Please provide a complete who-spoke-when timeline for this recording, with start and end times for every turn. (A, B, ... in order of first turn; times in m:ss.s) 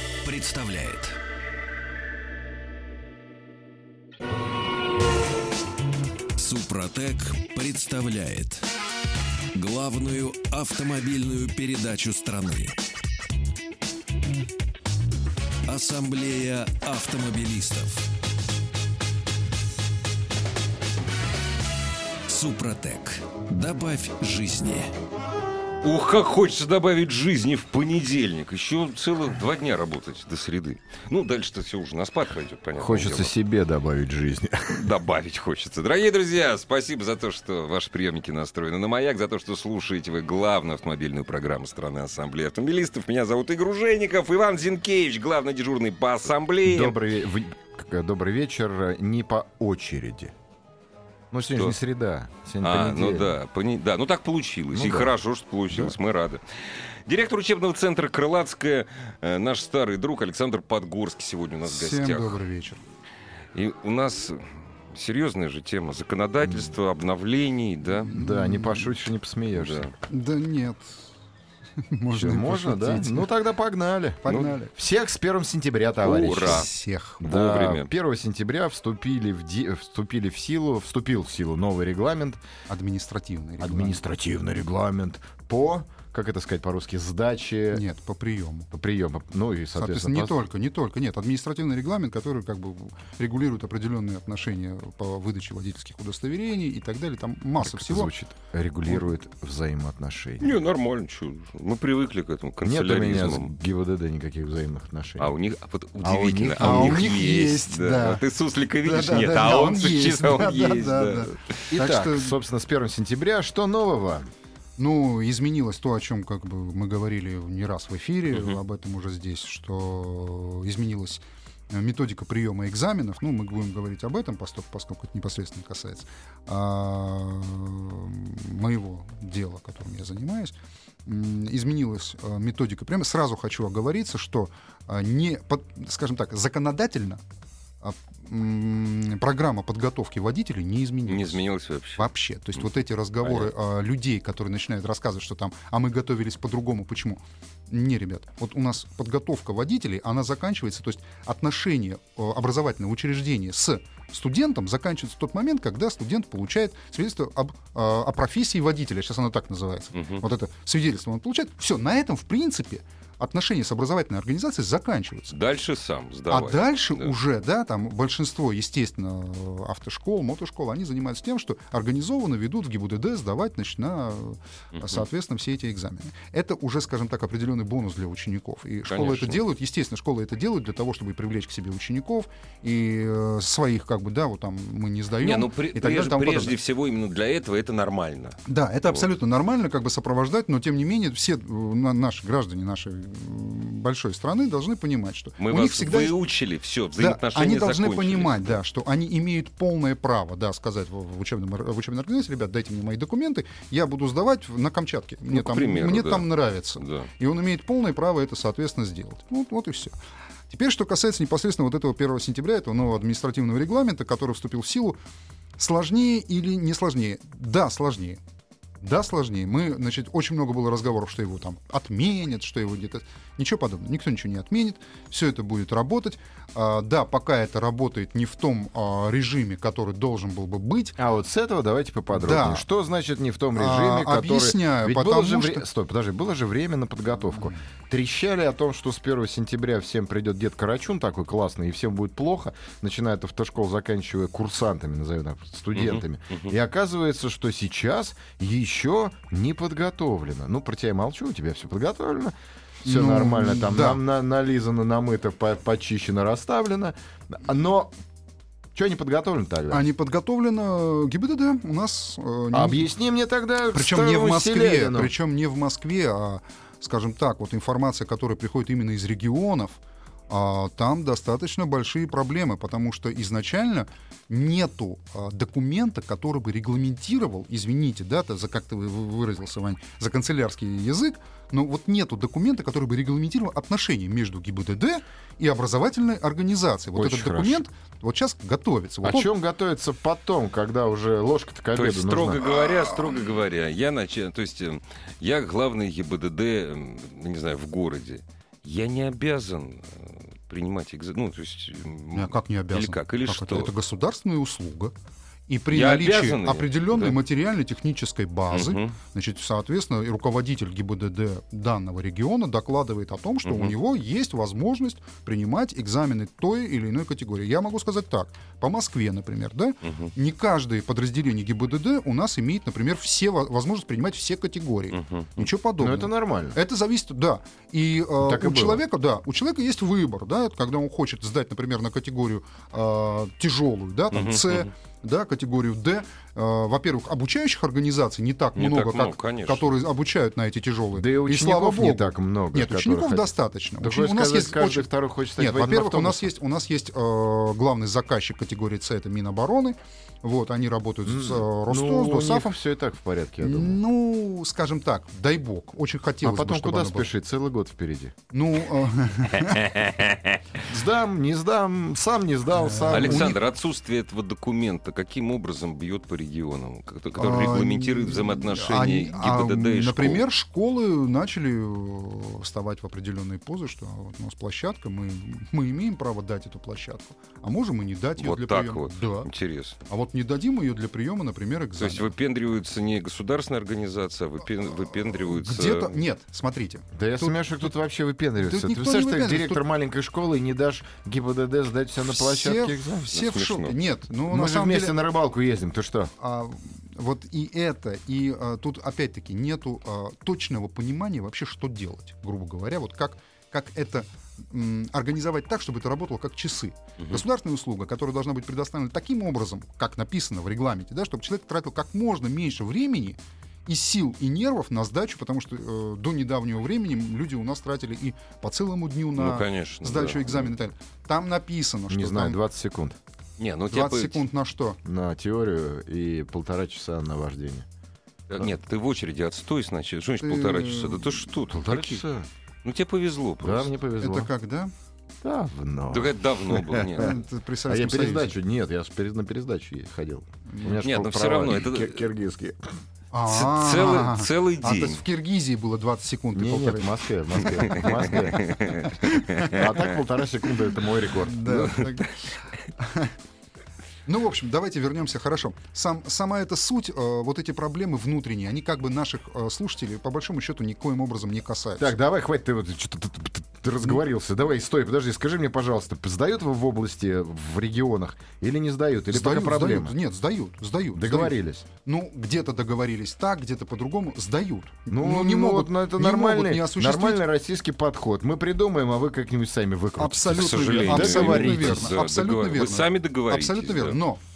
0:00.2-0:01.2 A
0:06.4-0:08.7 A
0:09.5-0:12.8 A
0:15.7-0:18.1 A
0:22.3-0:24.9 A
0:25.8-0:33.3 B
0:32.8-0:34.9 C
0:34.8-0:47.0 B
0:46.6-0:50.3 C
0:51.3-0:53.4 C
0:52.6-0:56.4 B
0:54.7-0:55.1 C
0:55.7-0:56.0 C
0:57.1-1:02.4 B
1:01.7-1:02.8 D
1:03.5-1:08.1 B
1:06.4-1:06.7 C
1:07.9-1:08.9 D
1:08.1-1:09.9 C
1:09.5-1:09.9 B
1:10.1-1:11.1 D
1:11.8-1:13.3 D
1:12.1-1:16.7 C
1:14.2-1:14.7 D
1:14.3-1:14.5 B
1:16.0-1:16.7 B
1:16.4-1:17.2 D
1:17.2-1:22.4 C
1:17.2-1:17.9 B
1:22.7-1:24.0 D
1:23.6-1:27.8 C
1:27.7-1:28.7 D
1:28.7-1:30.4 C
1:29.8-1:38.1 D
1:37.6-1:40.6 C
1:40.4-1:43.5 B
1:42.6-1:45.3 C
1:45.2-1:51.6 B
1:46.0-1:47.1 C
1:46.6-1:48.2 D
1:48.8-1:52.4 D
1:51.7-1:54.3 C
1:54.8-2:10.6 D
1:58.3-1:58.6 B
2:11.1-2:17.2 D
2:17.8-2:21.4 D
2:21.1-2:22.6 B
2:22.0-2:45.3 D
2:23.2-2:23.5 B
2:39.9-2:40.2 B
2:45.3-2:47.1 B
2:46.3-3:06.6 D
2:54.8-2:55.0 B
2:58.9-2:59.4 B
3:05.2-3:09.0 B
3:08.5-3:16.2 D
3:15.4-3:18.6 B
3:17.0-3:30.0 D
3:25.3-3:26.3 B
3:26.8-3:27.1 B
3:30.5-3:35.0 D
3:35.6-3:38.2 D
3:38.8-3:51.0 D
3:51.0-4:17.9 C
3:52.1-3:52.7 D
3:53.6-3:55.7 D
4:05.7-4:06.5 B
4:12.8-4:14.0 D
4:18.7-4:19.9 C
4:19.7-4:22.9 D
4:22.5-4:25.1 C
4:23.7-4:29.8 D
4:30.3-4:49.3 D
4:47.0-4:47.6 C
4:49.0-4:52.5 C
4:51.7-5:03.7 B
5:02.1-5:04.9 D
5:05.5-5:52.5 D
5:05.7-5:07.2 B
5:08.5-5:09.0 B
5:13.4-5:13.7 B
5:19.8-5:20.1 B
5:24.9-5:25.5 B
5:25.8-5:26.6 C
5:28.2-5:28.8 C
5:34.1-5:34.7 B
5:38.6-5:39.7 B
5:41.0-5:46.3 C
5:51.0-5:53.8 C
5:53.4-5:57.1 D
5:56.2-5:58.2 C
5:58.3-5:59.8 D
5:59.4-6:00.4 B
6:00.6-6:03.4 C
6:02.5-6:03.4 D
6:02.9-6:10.2 B
6:07.2-6:19.3 D
6:18.2-6:19.8 B
6:19.9-6:22.2 D
6:21.8-6:26.0 B
6:25.1-6:27.4 D
6:26.9-6:33.1 C
6:28.4-6:29.6 D
6:32.0-6:35.0 D
6:33.1-6:33.8 B
6:34.3-6:36.1 C
6:36.2-7:02.4 D
6:47.0-6:47.2 B
6:59.2-7:00.5 B
7:01.9-7:03.0 C
7:03.4-7:04.3 B
7:03.7-7:04.8 D
7:04.8-7:07.7 C
7:08.3-7:12.0 B
7:10.2-7:11.2 D
7:11.5-7:12.3 C
7:12.6-7:13.7 B
7:13.4-7:14.3 C
7:14.0-7:14.7 D
7:15.2-7:22.7 C
7:15.9-7:17.1 B
7:17.0-7:18.3 D
7:20.5-7:20.8 D
7:20.8-7:22.0 B
7:23.1-7:28.5 D
7:23.3-7:25.0 B
7:26.3-7:28.6 C
7:27.7-7:29.7 B
7:29.0-7:29.5 D
7:29.5-7:31.7 C
7:31.3-7:33.1 D
7:31.6-7:32.1 B
7:34.1-7:42.0 D
7:41.8-7:50.0 C
7:49.1-7:57.2 D
7:50.9-7:51.7 C
7:54.9-8:01.9 C
8:00.0-8:04.2 D
8:00.3-8:04.0 B